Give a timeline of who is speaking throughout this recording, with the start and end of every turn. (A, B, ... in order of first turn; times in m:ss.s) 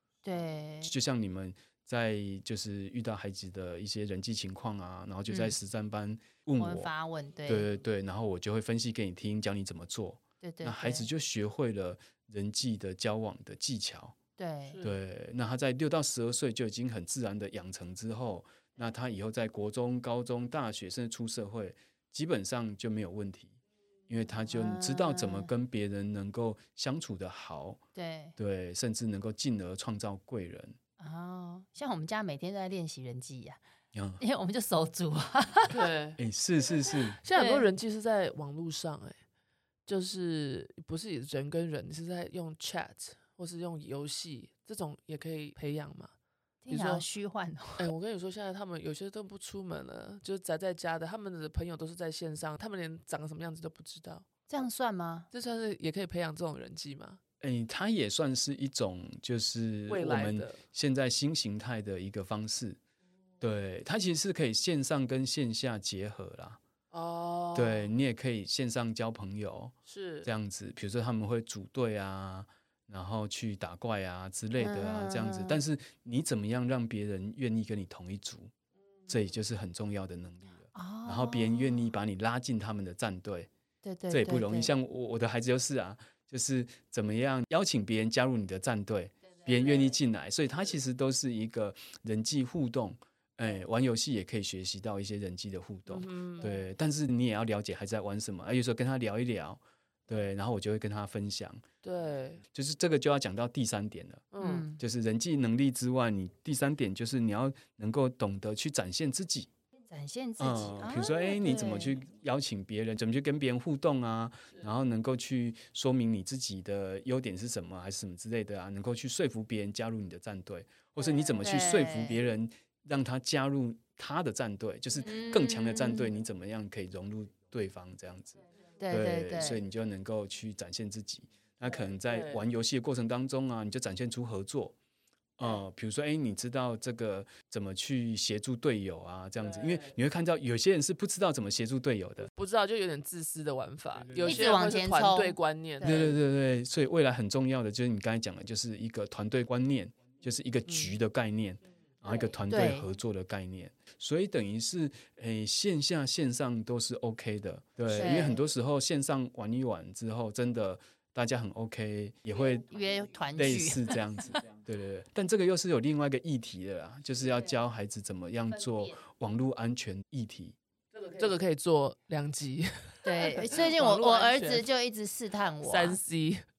0:00.2-0:00.9 A
0:00.8-0:06.9 B
0:05.3-0:05.6 A
0:06.6-0:07.7 A
0:07.4-0:14.2 B
0:10.4-0:11.1 A
0:14.4-0:14.8 A
0:14.7-0:15.0 C
0:14.8-0:23.6 B
0:24.1-0:27.8 B
0:24.4-0:25.5 A
0:27.9-0:28.3 A
0:28.4-0:30.8 B
0:31.0-0:33.6 A
0:33.9-0:34.2 B
0:34.2-0:35.8 A
0:35.7-0:36.2 C
0:36.2-0:37.2 B
0:37.2-0:39.2 C
0:37.3-0:37.7 A
0:39.9-0:46.1 C
0:46.6-0:47.9 A
0:46.7-0:47.0 C
0:47.8-0:54.2 C
0:54.5-0:55.3 A
0:55.3-0:57.2 C
0:57.4-1:02.8 B
0:59.9-1:00.6 C
1:03.4-1:06.6 B
1:06.9-1:07.9 C
1:07.5-1:18.5 B
1:09.8-1:10.3 C
1:14.6-1:15.6 A
1:19.1-1:23.5 B
1:20.7-1:21.9 A
1:23.8-1:24.7 A
1:24.1-1:41.6 B
1:35.9-1:36.5 C
1:41.8-1:42.4 C
1:42.5-1:49.5 B
1:44.3-1:44.6 C
1:44.4-1:44.8 A
1:49.9-1:52.0 A
1:50.4-2:14.7 B
2:01.4-2:02.2 A
2:05.0-2:06.1 A
2:08.8-2:09.6 A
2:11.8-2:12.4 C
2:15.4-2:22.3 B
2:22.3-2:26.1 C
2:24.2-2:26.2 A
2:25.8-2:42.7 B
2:30.6-2:31.0 C
2:32.3-2:32.9 A
2:37.9-2:38.5 A
2:42.5-2:44.4 A
2:43.3-2:50.6 B
2:50.9-2:54.7 C
2:53.0-2:56.0 A
2:55.6-2:56.4 C